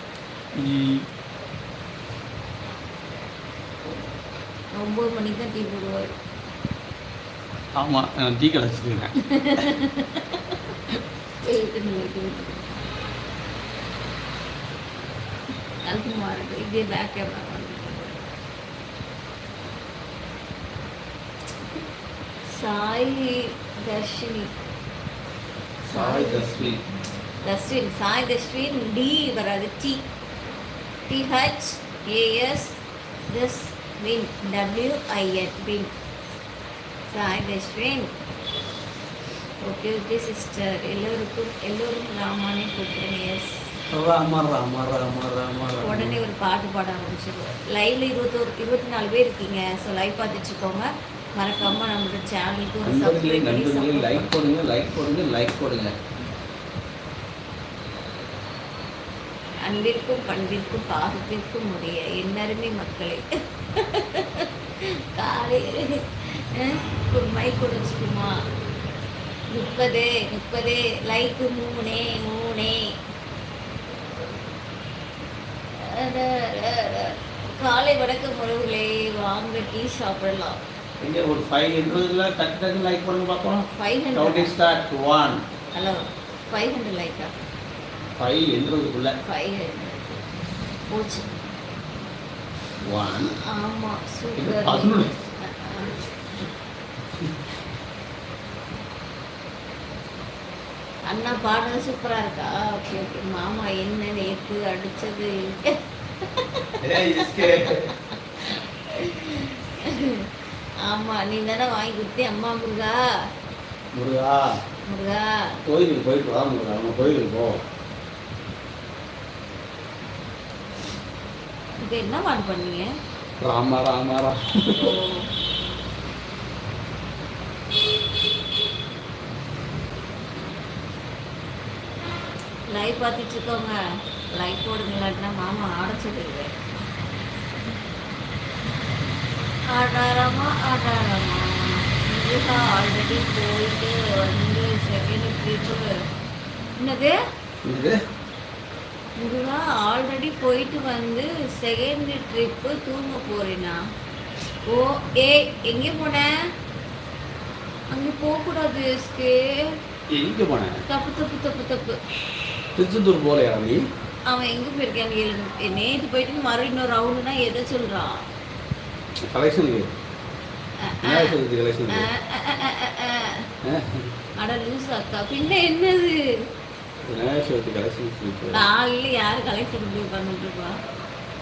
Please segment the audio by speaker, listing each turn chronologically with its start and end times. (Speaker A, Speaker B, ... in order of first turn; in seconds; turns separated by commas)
Speaker A: 0.6-1.0, Speaker B: 4.8-6.1, Speaker A: 7.8-9.1, Speaker B: 9.2-10.4, Speaker B: 11.4-12.6, Speaker B: 15.9-18.2, Speaker B: 22.5-24.5, Speaker A: 25.9-26.8, Speaker B: 25.9-26.8, Speaker B: 27.4-30.0, Speaker B: 31.1-32.8, Speaker B: 33.3-35.9, Speaker B: 37.1-38.1, Speaker B: 39.6-43.5, Speaker A: 43.9-46.2, Speaker B: 45.8-54.3, Speaker A: 52.8-55.9, Speaker B: 59.6-68.3, Speaker B: 69.5-72.9, Speaker B: 75.8-80.6, Speaker A: 81.0-85.4, Speaker B: 83.7-84.5, Speaker B: 85.7-87.3, Speaker A: 88.2-89.2, Speaker B: 89.2-90.2, Speaker B: 90.9-91.2, Speaker A: 92.8-93.3, Speaker B: 93.2-95.9, Speaker A: 94.4-95.2, Speaker B: 101.1-110.3, Speaker A: 106.8-107.9, Speaker B: 110.8-113.0, Speaker A: 113.9-114.6, Speaker B: 114.8-115.6, Speaker A: 115.7-117.6, Speaker B: 121.8-122.9, Speaker A: 123.4-124.9, Speaker B: 124.8-125.3, Speaker B: 132.7-133.8, Speaker B: 134.3-136.5, Speaker B: 139.7-145.8, Speaker B: 146.8-147.2, Speaker A: 147.6-148.0, Speaker B: 149.2-153.8, Speaker B: 154.7-156.3, Speaker B: 157.9-159.7, Speaker A: 160.1-160.8, Speaker B: 160.9-162.0, Speaker A: 162.7-163.8, Speaker B: 164.3-168.2, Speaker A: 169.2-169.9, Speaker B: 170.8-171.4, Speaker A: 171.0-172.1, Speaker B: 171.9-173.5, Speaker A: 173.6-174.1, Speaker B: 174.4-176.2, Speaker A: 177.1-178.7, Speaker B: 178.5-180.7